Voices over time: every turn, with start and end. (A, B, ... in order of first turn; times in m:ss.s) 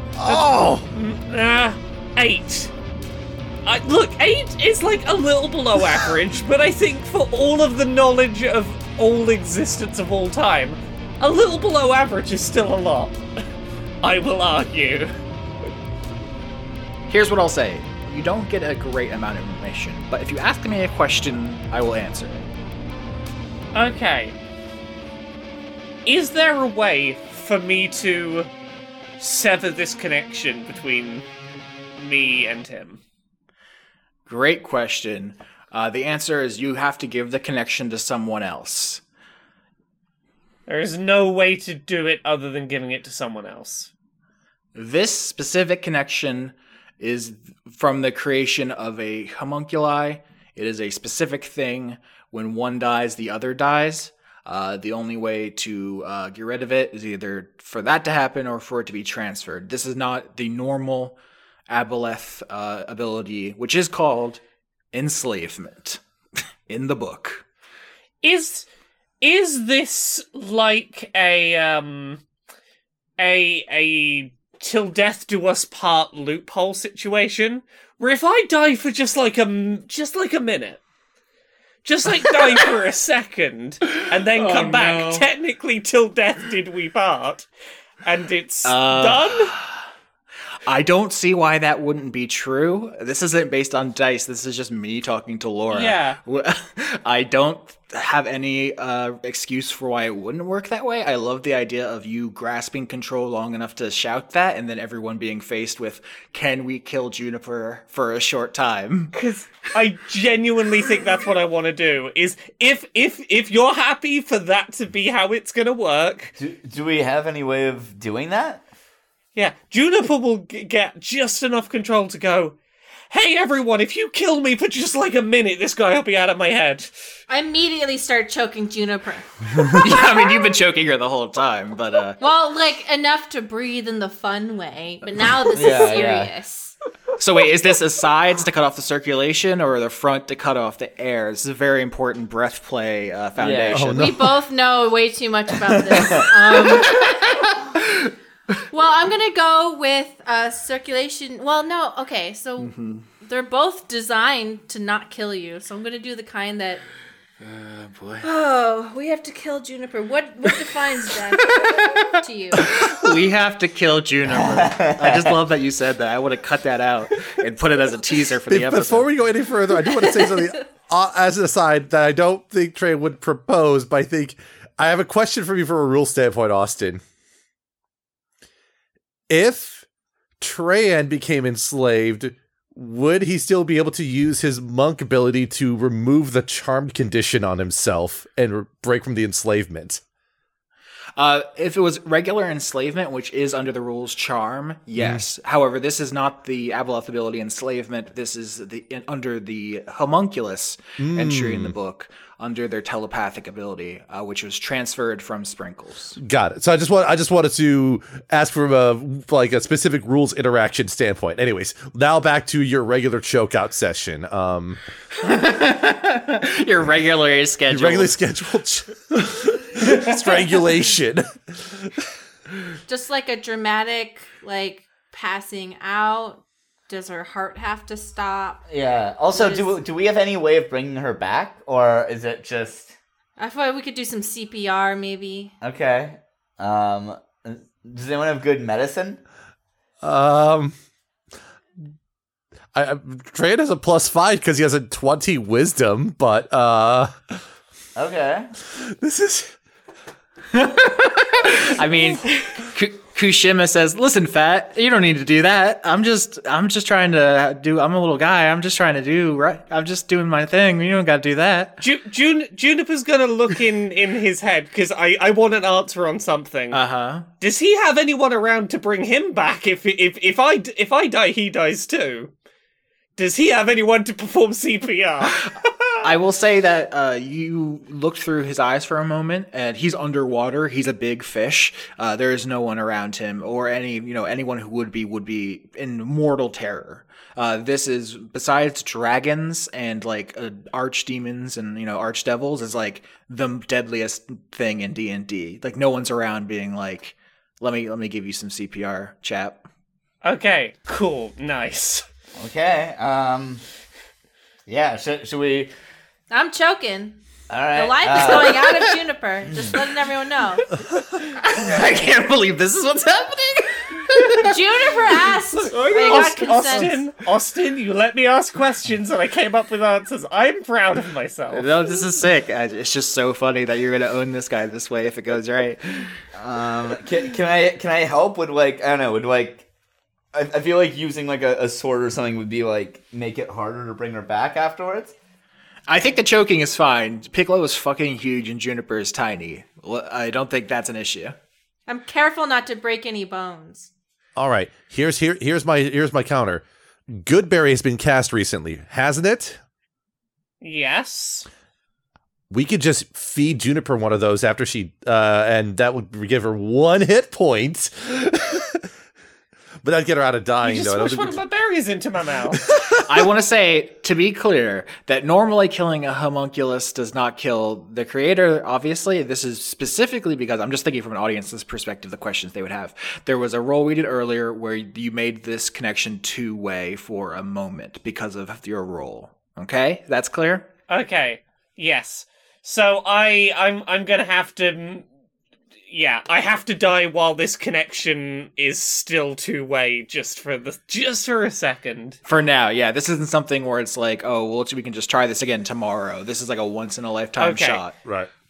0:00.2-0:00.9 A
0:00.2-0:02.7 B
0:03.6-0:13.2 B
0:14.0-0:15.1 B
0:17.1-0:22.5 C
0:23.8-0:24.4 B
0:26.1-0:28.5 B
0:29.2-0:31.2 B
0:32.0-0:33.0 B
0:34.3-0:39.0 C
0:40.7-0:43.9 B
0:44.8-1:01.2 C
1:01.7-1:04.4 C
1:04.9-1:06.0 C
1:06.7-1:07.4 C
1:08.2-1:08.7 B
1:09.2-1:12.2 B
1:13.2-1:20.8 B
1:21.8-1:27.5 B
1:22.3-1:22.7 C
1:23.9-1:25.3 C
1:28.0-1:29.5 B
1:28.6-1:29.7 C
1:30.7-1:49.1 C
1:35.7-1:36.2 B
1:49.1-1:56.3 B
1:56.4-1:58.6 D
1:59.4-2:02.6 B
2:03.1-2:06.9 B
2:07.3-2:10.3 E
2:09.6-2:12.2 C
2:12.2-2:16.8 E
2:15.5-2:16.3 D
2:17.2-2:24.0 C
2:23.4-2:23.8 D
2:23.7-2:24.3 A
2:23.9-2:27.1 E
2:26.7-2:28.1 C
2:28.7-2:36.8 E
2:32.6-2:33.1 C
2:37.4-2:38.3 C
2:38.2-2:42.7 E
2:41.4-2:49.1 C
2:44.3-2:45.4 D
2:48.5-2:57.0 A
2:59.3-2:59.8 A
3:00.4-3:10.0 A
3:11.2-3:26.2 C
3:15.0-3:15.2 A
3:21.0-3:21.8 A
3:26.2-3:34.8 A
3:35.2-3:38.2 C
3:37.7-3:42.0 A
3:42.9-3:48.6 E
3:48.7-3:53.0 D
3:49.3-3:49.7 E
3:53.4-3:55.5 E
3:55.6-3:59.2 D
4:00.0-4:00.8 A
4:02.7-4:07.4 A
4:08.0-4:08.5 D
4:08.7-4:09.6 A
4:10.5-4:21.8 C
4:21.8-4:26.8 B
4:26.7-4:27.3 C
4:27.4-4:32.3 B
4:33.2-4:36.1 B
4:36.0-4:59.6 C
5:00.2-5:02.0 B
5:02.4-5:03.6 D
5:04.7-5:05.7 D
5:06.3-5:07.2 E
5:07.5-5:08.8 D
5:07.7-5:10.7 E
5:09.5-5:09.8 D
5:11.4-5:14.6 C
5:11.6-5:12.3 D
5:14.4-5:16.9 E
5:15.6-5:21.7 B
5:15.7-5:17.0 C
5:21.5-5:26.1 C
5:26.4-5:29.7 D
5:30.3-5:35.2 D
5:35.9-5:41.4 C
5:41.9-5:43.9 E
5:44.4-5:49.6 A
5:50.6-5:51.5 B
5:52.5-5:58.9 A
5:59.8-6:01.4 A
6:00.6-6:02.7 B
6:02.7-6:03.0 A
6:03.0-6:20.7 C
6:20.9-6:25.1 B
6:25.9-6:32.2 B
6:32.3-6:38.0 C
6:37.4-6:37.8 B
6:38.0-6:38.3 A